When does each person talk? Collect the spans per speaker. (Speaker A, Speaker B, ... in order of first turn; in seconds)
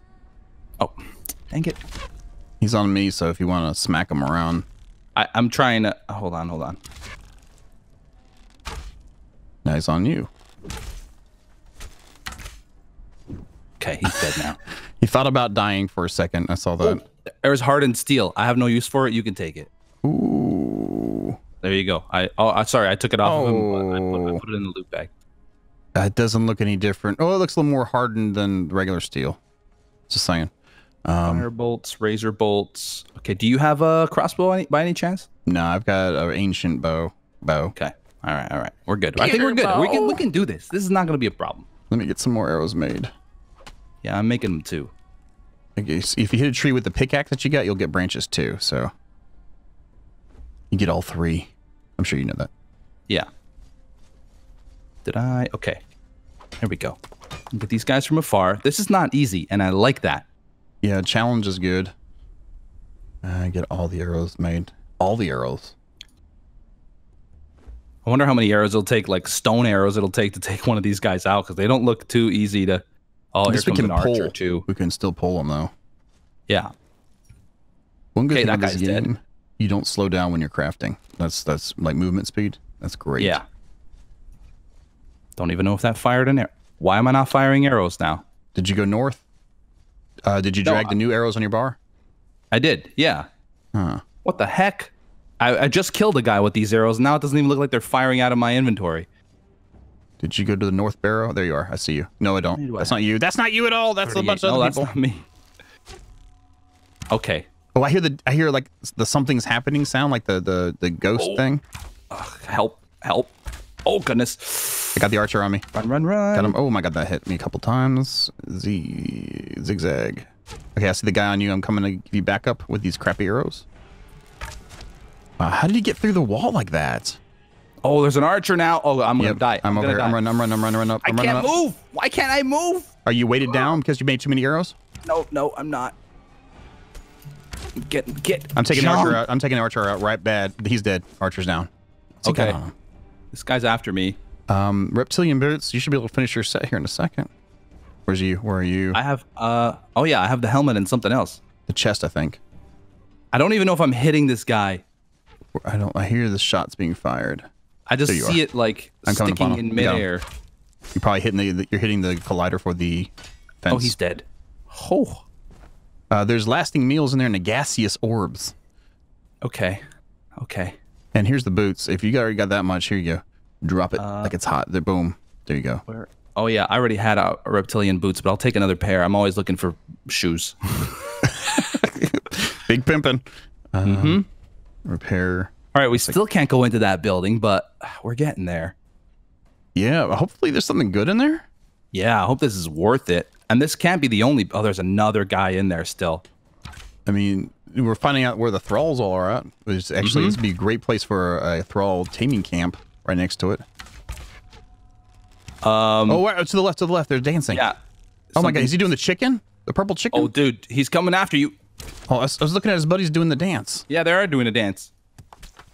Speaker A: 0.8-1.8, 5.2-6.8, 13.8-14.6, 16.8-19.7, 21.6-25.1, 31.2-35.3, 37.8-41.7, 44.0-44.9, 55.0-55.8, 56.6-57.0, 57.5-60.3, 68.0-74.7, 78.3-79.1, 83.2-83.5, 85.4-88.2, 90.6-91.0, 92.5-93.3, 94.2-99.1, 102.5-103.0, 104.0-105.3, 107.1-107.5, 111.2-111.5, 112.1-113.3, 113.8-115.0, 115.7-116.6, 127.8-130.2, 131.1-132.9, 135.0-136.0, 137.8-139.2, 142.2-142.6, 143.3-144.2, 148.9-151.4, 153.3-154.8, 157.9-160.2, 163.7-165.2, 169.4-169.8, 170.4-170.8, 174.0-174.3, 175.9-181.3, 183.8-184.2, 185.7-188.8, 191.9-196.2, 200.0-200.4, 205.6-206.2, 207.5-207.8, 208.3-208.8, 210.1-211.6, 213.9-214.9
Speaker B: 2.6-4.7, 9.7-10.3, 14.1-14.4, 15.0-17.0, 20.0-21.4, 23.2-24.4, 25.9-29.4, 30.1-30.5, 31.1-31.5, 35.5-37.8, 39.2-40.2, 41.9-43.1, 45.8-48.9, 50.7-52.5, 60.8-61.9, 63.2-65.8, 73.5-75.7, 78.2-83.4, 88.5-89.2, 90.3-91.8, 93.7-94.0, 100.2-104.9, 107.8-111.6, 115.0-115.7, 116.3-123.7, 125.4-127.2, 129.2-131.5, 133.1-134.8, 138.6-141.7, 142.2-142.7, 144.5-147.3, 148.1-149.0, 151.7-152.4, 155.6-157.5, 158.1-158.4, 159.1-160.1, 160.9-164.0, 166.1-168.5, 171.1-175.8, 181.2-184.2, 184.8-186.2, 189.8-191.5, 197.1-203.7, 206.1-207.7, 208.4-210.3, 212.1-213.8